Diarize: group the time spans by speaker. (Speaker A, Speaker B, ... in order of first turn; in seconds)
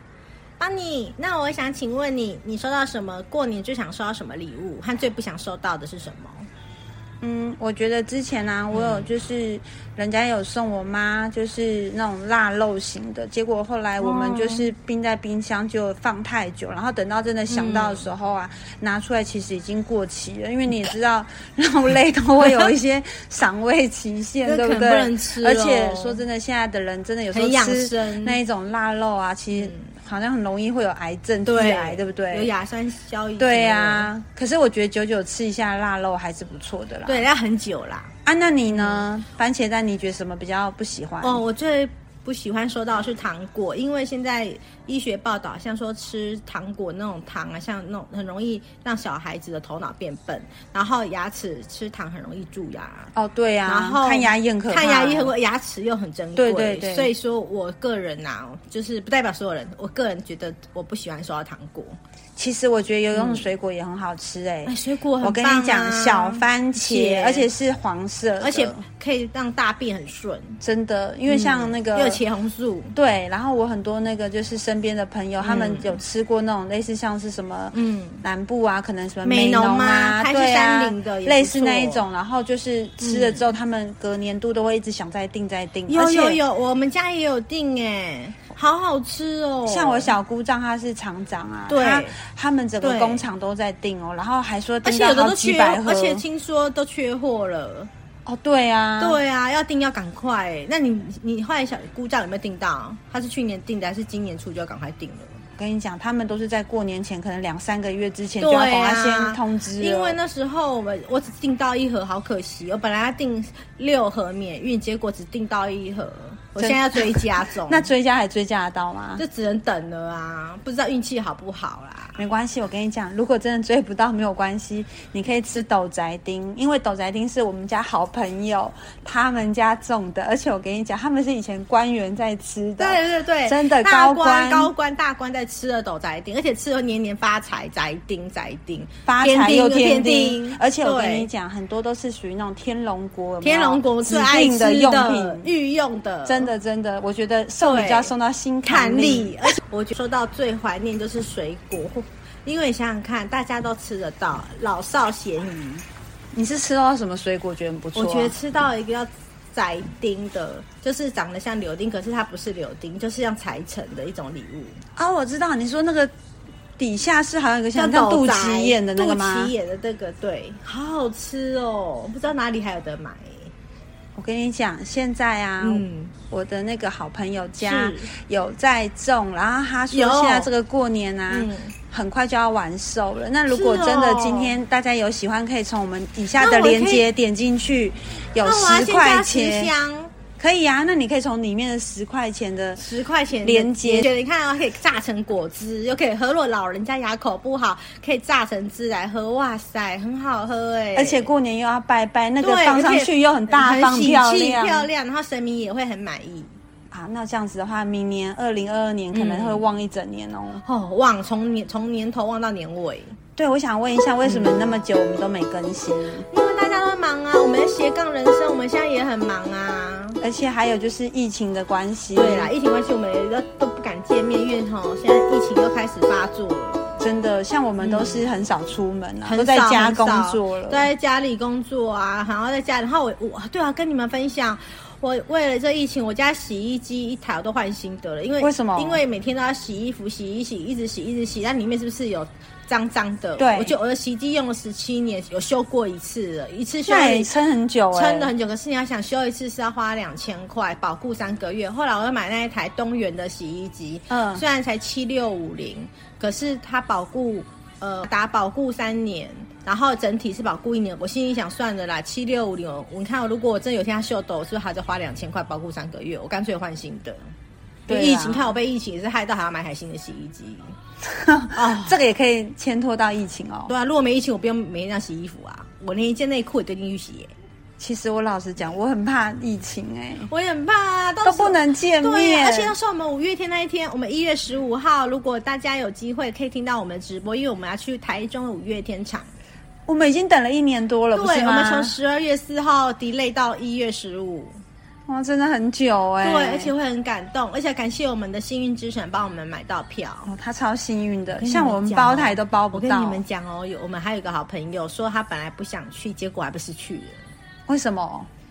Speaker A: 0.6-6.5, 8.7-9.1, 14.0-14.7, 17.5-18.1, 24.4-26.2, 27.3-28.4, 29.5-29.9, 31.4-34.1, 37.1-38.1, 38.7-39.0, 41.2-53.1, 53.6-62.0, 63.1-63.5, 64.7-67.5, 68.4-70.6, 71.3-72.9, 75.4-76.0, 77.7-78.2, 79.2-82.0, 83.0-83.5, 85.9-90.1, 91.7-92.2, 92.8-93.2, 94.8-97.9, 99.0-105.4, 108.4-117.9, 119.2-122.2, 132.8-141.3, 143.4-146.5, 147.6-148.1, 148.7-155.8, 157.9-164.8, 167.7-173.5, 175.6-176.1, 177.6-178.1, 179.9-180.5, 181.3-181.7, 183.5-184.6, 186.4-187.1, 188.4-190.1, 192.8-201.3, 202.4-206.5, 209.1-209.6, 210.6-213.2, 214.2-214.7, 216.3-220.2, 222.1-226.9, 227.8-228.2, 229.2-247.3, 247.9-267.2, 267.9-270.7, 271.5-272.0, 273.7-277.3, 280.3-289.4, 291.1-294.6, 296.2-300.3, 301.4-307.2
Speaker B: 7.2-32.5, 33.4-37.3, 38.2-41.4, 53.1-55.3, 56.4-57.1, 62.4-68.8, 70.6-72.2, 72.9-86.4, 89.7-96.2, 98.2-99.2, 105.6-110.2, 116.6-119.2, 122.2-134.7, 139.1-145.5, 146.2-149.4, 156.3-158.3, 165.0-166.1, 166.8-169.5, 174.2-189.7, 190.4-192.8, 193.4-194.1, 200.9-204.9, 206.9-210.6, 213.4-216.2, 220.2-222.5, 227.0-230.9, 238.4-239.0, 243.4-243.8, 246.8-248.3, 254.1-254.4, 267.9-268.5, 271.0-273.7, 277.8-280.3, 281.2-282.7, 289.9-292.0, 295.1-296.7, 300.2-303.2, 307.7-308.3